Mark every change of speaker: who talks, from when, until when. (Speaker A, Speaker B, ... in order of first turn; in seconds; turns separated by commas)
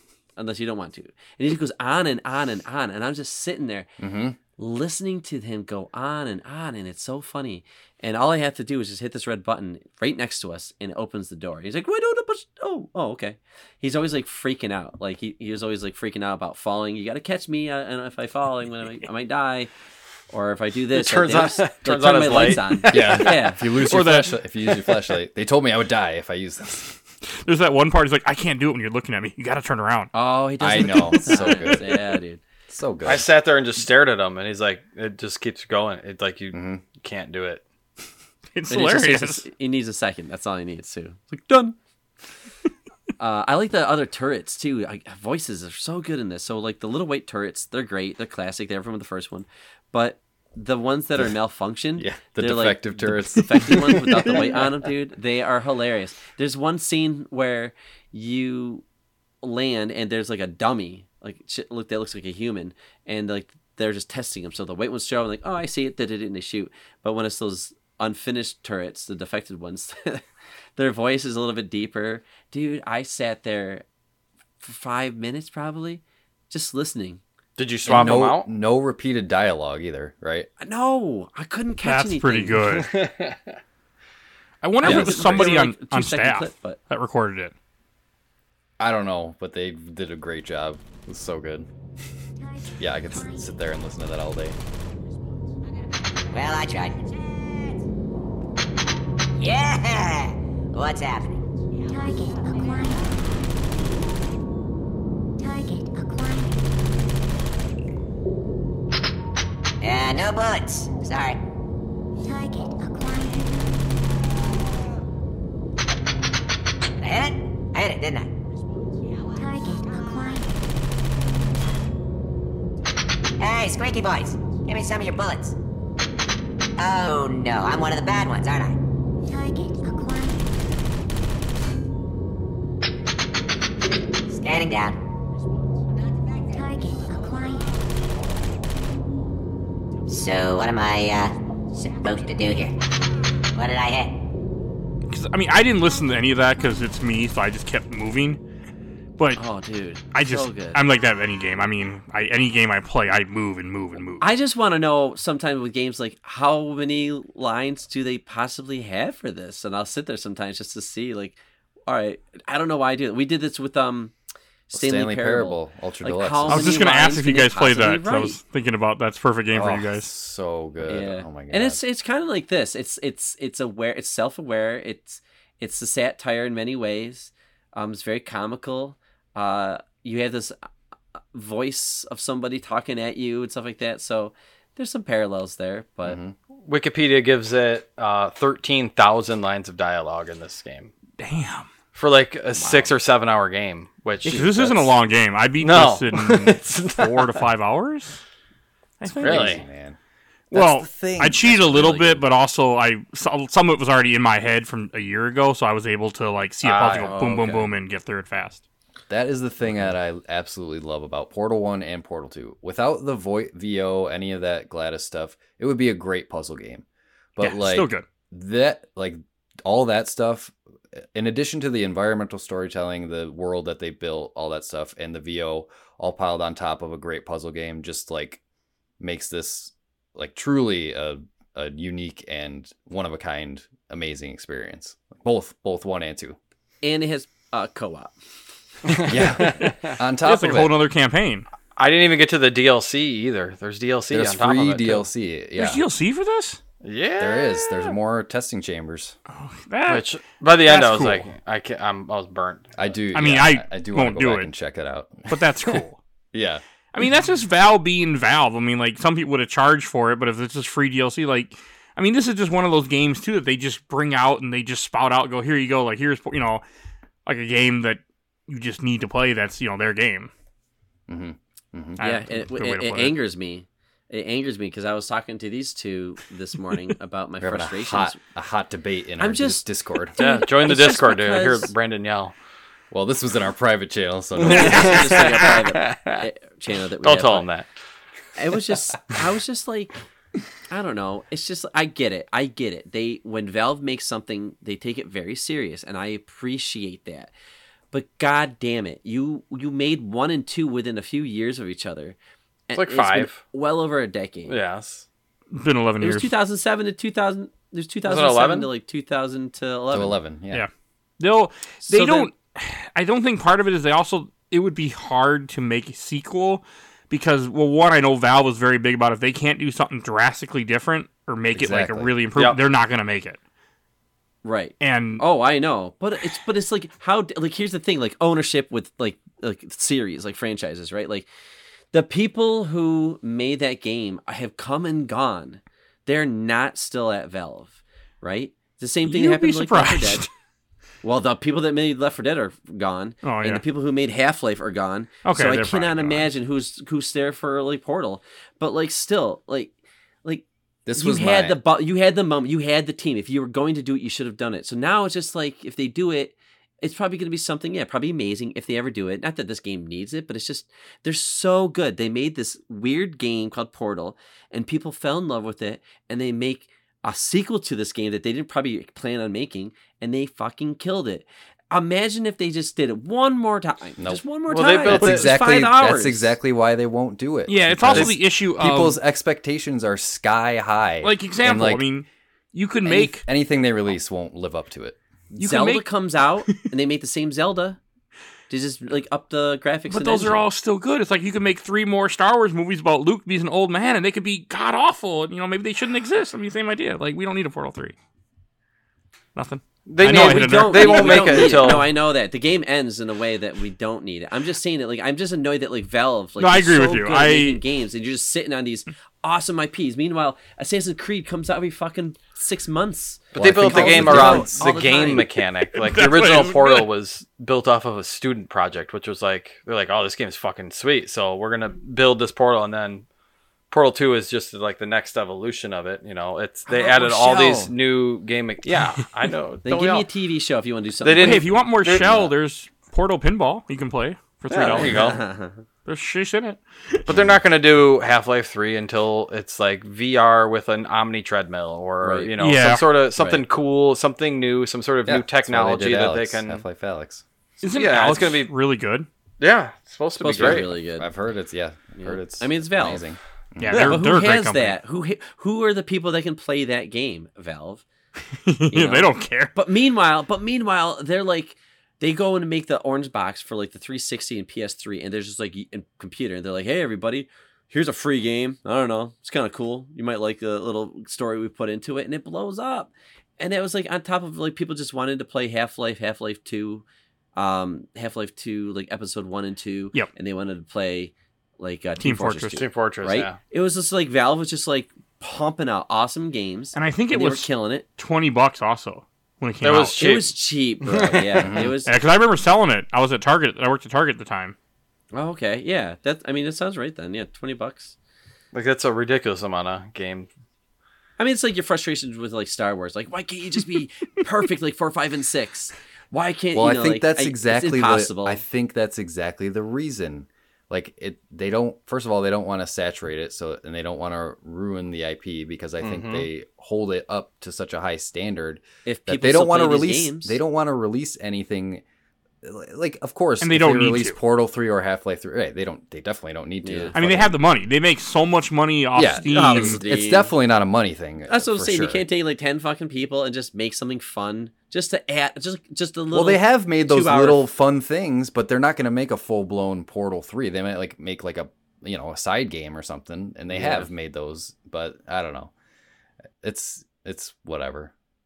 Speaker A: 0.4-3.9, Speaker B: 4.0-4.4, Speaker A: 4.6-19.7, Speaker A: 20.3-23.6, Speaker C: 20.9-23.3, Speaker B: 22.9-27.0, Speaker D: 23.8-24.3, Speaker D: 27.3-30.1, Speaker A: 30.1-32.4, Speaker B: 30.6-32.0, Speaker D: 31.3-31.6, Speaker B: 32.7-33.3, Speaker C: 33.0-37.6, Speaker B: 36.5-36.8, Speaker D: 38.5-39.5, Speaker A: 38.7-41.8, Speaker A: 43.2-58.8, Speaker B: 52.0-54.7, Speaker A: 59.4-70.2, Speaker A: 70.8-73.8, Speaker A: 74.6-77.2, Speaker C: 77.6-78.5, Speaker B: 77.8-80.5, Speaker A: 80.6-82.6, Speaker D: 81.8-82.9, Speaker C: 82.7-83.6, Speaker D: 84.6-87.5, Speaker A: 84.8-86.8, Speaker B: 84.8-85.5, Speaker B: 88.8-91.7, Speaker E: 92.4-93.7, Speaker B: 92.8-94.6, Speaker F: 96.3-97.1, Speaker F: 99.3-101.4, Speaker E: 101.9-103.2, Speaker E: 105.4-106.7, Speaker F: 109.8-111.4, Speaker E: 112.2-114.0, Speaker F: 117.0-118.3, Speaker E: 119.3-120.6, Speaker F: 123.4-125.5, Speaker F: 126.8-128.8, Speaker E: 129.3-130.5, Speaker F: 134.3-134.9, Speaker E: 136.4-137.7, Speaker F: 140.1-142.7, Speaker F: 143.5-144.1, Speaker D: 145.1-148.4, Speaker A: 149.3-150.8, Speaker D: 150.1-154.3, Speaker A: 154.2-164.1, Speaker A: 164.7-168.4, Speaker B: 164.7-166.8, Speaker D: 166.5-170.1, Speaker B: 169.5-171.8, Speaker A: 170.9-180.5, Speaker A: 181.3-186.2, Speaker B: 186.0-186.3, Speaker C: 186.6-190.9, Speaker D: 191.2-191.7, Speaker C: 191.9-194.8, Speaker B: 192.6-192.9, Speaker D: 194.2-198.2, Speaker B: 194.3-194.8, Speaker C: 195.6-197.4, Speaker B: 196.2-196.5, Speaker D: 199.0-199.6, Speaker B: 199.0-200.0, Speaker C: 199.2-199.6, Speaker D: 200.5-208.6, Speaker B: 200.5-202.2, Speaker C: 206.6-207.1, Speaker A: 206.9-207.7, Speaker B: 209.1-216.8, Speaker A: 209.6-209.9, Speaker B: 217.3-228.4, Speaker D: 217.4-218.1, Speaker B: 229.0-236.4, Speaker A: 236.8-238.4, Speaker C: 238.9-239.9, Speaker B: 239.1-240.8, Speaker D: 239.4-241.5, Speaker C: 241.8-245.1, Speaker B: 244.1-245.8, Speaker D: 245.6-246.6, Speaker C: 246.8-247.9, Speaker B: 247.2-249.2, Speaker D: 249.3-250.1, Speaker C: 249.9-252.7, Speaker D: 250.6-251.2, Speaker B: 252.8-255.8, Speaker D: 253.1-254.5, Speaker D: 255.3-256.0, Speaker B: 256.3-256.6, Speaker D: 256.9-266.6, Speaker D: 267.2-270.3, Speaker B: 271.1-272.0, Speaker D: 272.0-273.2, Speaker A: 272.0-278.2, Speaker B: 277.4-280.1, Speaker A: 279.2-279.6, Speaker A: 280.2-281.7, Speaker C: 280.2-282.3, Speaker B: 282.9-285.2, Speaker C: 284.4-286.2, Speaker D: 284.5-285.0, Speaker A: 284.5-287.5, Speaker C: 287.0-287.7, Speaker A: 288.4-290.0, Speaker A: 290.7-297.3, Speaker A: 297.9-302.1, Speaker A: 302.7-304.6, Speaker C: 302.7-303.4, Speaker C: 304.5-305.0, Speaker D: 305.5-306.3, Speaker A: 306.0-310.1, Speaker C: 308.0-308.7, Speaker B: 309.9-310.6, Speaker D: 310.5-323.4, Speaker A: 311.9-312.2, Speaker B: 321.5-322.1, Speaker A: 324.4-331.3, Speaker D: 324.8-325.2, Speaker A: 331.9-340.2, Speaker D: 339.0-340.3, Speaker A: 341.0-376.3, Speaker D: 343.2-343.6, Speaker D: 345.2-346.2, Speaker B: 350.9-351.6, Speaker C: 374.5-375.3, Speaker B: 374.8-381.9, Speaker D: 377.5-379.0, Speaker D: 381.0-383.2, Speaker B: 382.8-385.0, Speaker A: 385.4-387.8, Speaker D: 385.4-385.8, Speaker A: 388.5-390.4, Speaker D: 389.9-397.9, Speaker D: 399.4-401.9, Speaker C: 399.9-401.9, Speaker A: 400.0-415.3, Speaker D: 406.4-407.6, Speaker B: 413.3-414.6, Speaker C: 413.3-423.1, Speaker D: 415.7-416.9, Speaker C: 423.7-430.1, Speaker A: 426.7-427.7, Speaker A: 429.6-431.5, Speaker C: 431.0-432.2, Speaker D: 431.2-434.9, Speaker C: 434.5-435.2, Speaker A: 434.8-435.6, Speaker D: 435.8-437.0, Speaker C: 437.1-446.6, Speaker B: 437.1-437.4, Speaker A: 442.0-442.3, Speaker D: 442.4-442.9, Speaker A: 443.2-443.4, Speaker B: 445.0-447.2, Speaker D: 447.6-449.1, Speaker C: 447.7-448.5, Speaker C: 449.4-450.7, Speaker A: 450.2-451.1, Speaker B: 450.3-454.0, Speaker A: 452.0-453.1, Speaker D: 453.6-454.8, Speaker A: 453.7-457.8, Speaker D: 458.4-459.6, Speaker A: 458.7-476.8, Speaker A: 477.4-487.9, Speaker D: 482.0-482.6, Speaker C: 482.6-483.4, Speaker D: 486.7-490.0, Speaker C: 489.6-491.6, Speaker A: 490.0-491.9, Speaker B: 491.4-491.8, Speaker D: 491.9-494.6, Speaker A: 495.1-497.9, Speaker C: 498.5-500.3, Speaker A: 501.2-508.4, Speaker B: 506.5-521.8, Speaker C: 515.8-516.3, Speaker A: 518.8-520.4, Speaker B: 522.4-527.4, Speaker D: 523.4-524.2, Speaker A: 526.6-526.9, Speaker D: 526.9-529.8, Speaker B: 528.9-532.0, Speaker A: 529.2-530.3, Speaker A: 531.3-537.4, Speaker B: 536.1-545.5, Speaker A: 543.5-543.9, Speaker B: 546.4-547.9